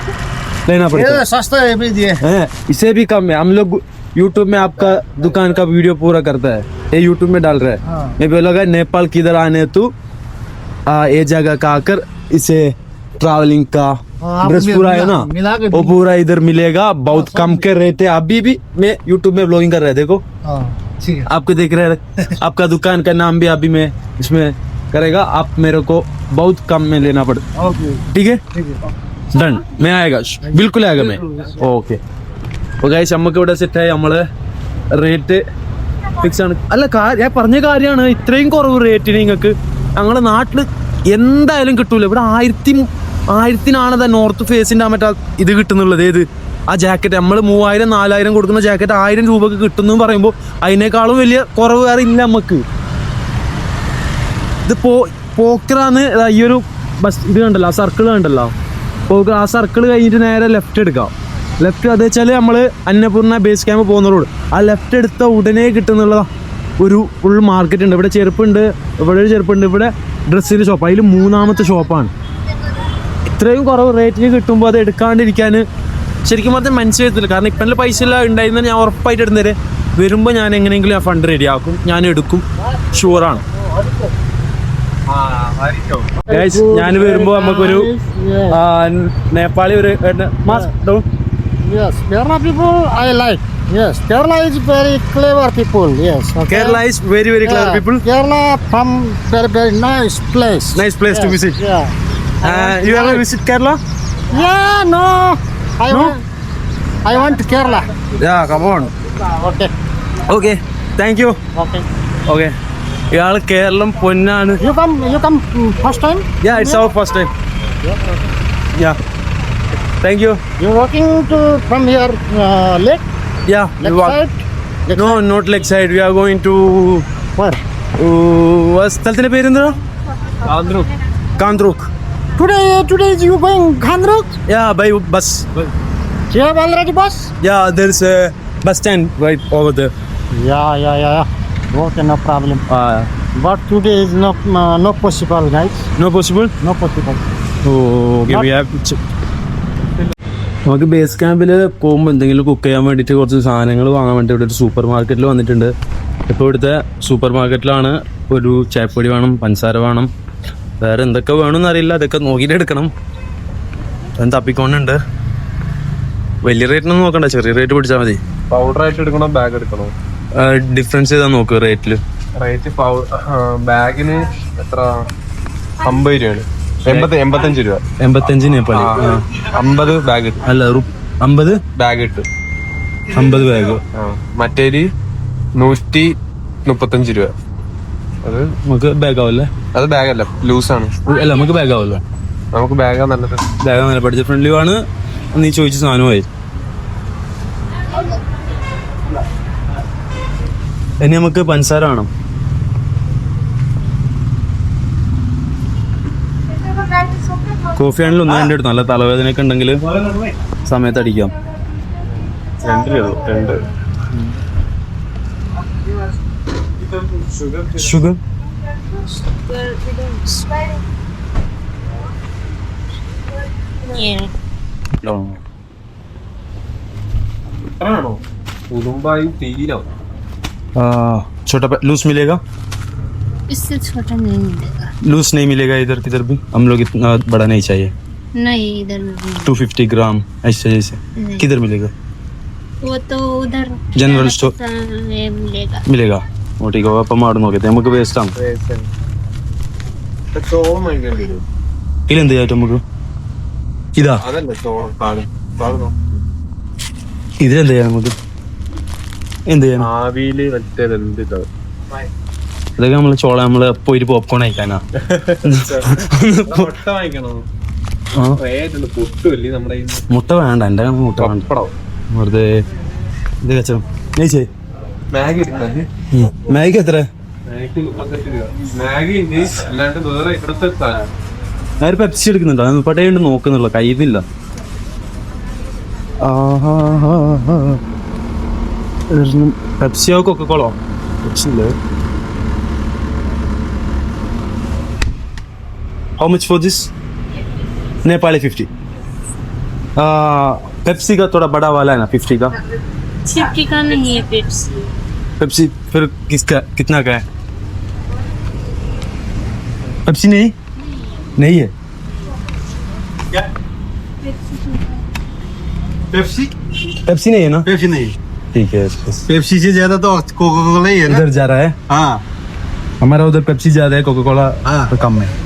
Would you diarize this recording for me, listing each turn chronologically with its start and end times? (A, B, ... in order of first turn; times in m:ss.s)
0:00.7-0:01.2 A
0:01.0-0:02.2 B
0:02.2-0:09.9 A
0:10.9-0:20.2 A
0:14.2-0:15.7 B
0:21.2-0:27.4 A
0:28.1-0:28.4 A
0:29.3-0:32.0 A
0:32.8-0:34.2 A
0:34.9-0:35.4 A
0:36.2-0:52.6 A
0:54.6-0:58.5 A
0:59.1-1:06.3 A
1:06.8-1:12.1 A
1:13.3-1:15.6 A
1:16.2-1:23.4 A
1:23.8-1:24.1 B
1:25.1-1:26.1 C
1:26.3-1:28.6 B
1:26.3-1:27.9 A
1:28.5-1:31.0 A
1:31.6-1:36.8 B
1:36.5-1:38.0 A
1:37.4-1:43.2 B
1:40.7-1:41.6 A
1:42.4-1:43.8 A
1:44.3-1:46.2 B
1:45.9-1:46.1 A
1:47.0-1:47.9 B
1:48.2-1:48.9 A
1:49.2-1:49.7 B
1:50.3-1:51.4 A
1:51.5-1:51.9 B
1:52.3-1:52.5 A
1:53.1-1:54.6 A
1:54.6-1:56.8 B
1:56.4-1:57.3 A
1:57.8-1:58.1 B
2:00.0-2:00.4 A
2:00.6-2:03.0 B
2:03.5-2:04.2 A
2:03.8-2:04.4 B
2:04.9-2:05.2 B
2:04.9-2:07.0 A
2:08.0-2:09.8 A
2:10.4-2:10.9 C
2:11.4-2:11.9 A
2:12.4-2:14.3 B
2:14.5-2:15.4 A
2:16.3-2:17.3 B
2:17.4-2:19.9 A
2:20.3-2:22.6 B
2:22.7-2:23.1 A
2:23.3-2:25.9 B
2:26.0-2:26.5 A
2:26.6-2:27.2 B
2:27.6-2:29.0 A
2:30.6-2:35.7 A
2:36.3-2:40.1 A
2:40.8-2:42.9 A
2:44.2-2:45.0 A
2:46.4-2:48.2 A
2:48.5-2:49.9 C
2:50.3-2:52.0 A
2:52.4-2:54.9 C
2:55.8-2:57.8 C
2:58.0-2:59.2 A
2:58.7-3:00.4 C
3:00.4-3:01.6 A
3:01.8-3:02.3 C
3:03.1-3:03.8 A
3:03.9-3:04.9 C
3:05.6-3:06.1 C
3:06.6-3:07.3 C
3:08.2-3:08.5 C
3:08.6-3:09.5 A
3:09.7-3:10.9 C
3:11.1-3:12.0 A
3:12.5-3:13.4 C
3:13.6-3:14.8 A
3:15.3-3:16.3 A
3:21.0-3:22.1 A
3:27.7-3:29.8 A
3:30.6-3:31.3 A
3:32.7-3:33.5 A
3:32.9-3:33.5 C
3:37.7-3:38.2 A
3:39.5-3:40.4 D
3:43.9-3:44.3 D
3:45.0-3:45.4 A
3:47.8-3:49.8 C
3:50.8-3:52.4 A
3:53.5-3:54.7 D
3:55.0-3:57.9 A
3:58.4-3:59.5 D
3:59.4-4:01.9 A
4:02.8-4:05.8 D
4:03.9-4:04.6 A
4:05.8-4:08.3 A
4:08.4-4:08.9 C
4:10.3-4:11.4 C
4:12.1-4:12.8 A
4:14.0-4:14.2 A
4:14.2-4:16.0 C
4:17.4-4:18.1 A
4:19.5-4:19.9 A
4:19.8-4:21.5 C
4:22.8-4:24.8 A
4:25.0-4:25.9 C
4:25.4-4:26.7 A
4:26.5-4:27.4 C
4:28.4-4:30.0 C
4:30.1-4:31.5 A
4:31.2-4:31.7 C
4:32.1-4:32.6 A
4:33.4-4:34.5 A
4:35.1-4:35.9 C
4:36.1-4:37.1 A
4:37.5-4:41.1 C
4:41.8-4:44.2 A
4:46.2-4:47.8 A
4:49.1-4:51.7 A
4:56.2-4:56.9 A
4:58.0-4:58.7 A
5:00.0-5:02.5 A
5:03.3-5:04.6 D
5:05.4-5:07.2 A
5:10.0-5:10.5 A
5:11.4-5:11.7 A
5:16.1-5:16.5 E
5:17.0-5:17.7 A
5:17.6-5:18.1 E
5:18.5-5:19.2 A
5:19.3-5:21.2 E
5:21.0-5:21.8 A
5:21.9-5:22.2 E
5:23.0-5:25.3 A
5:24.6-5:25.0 E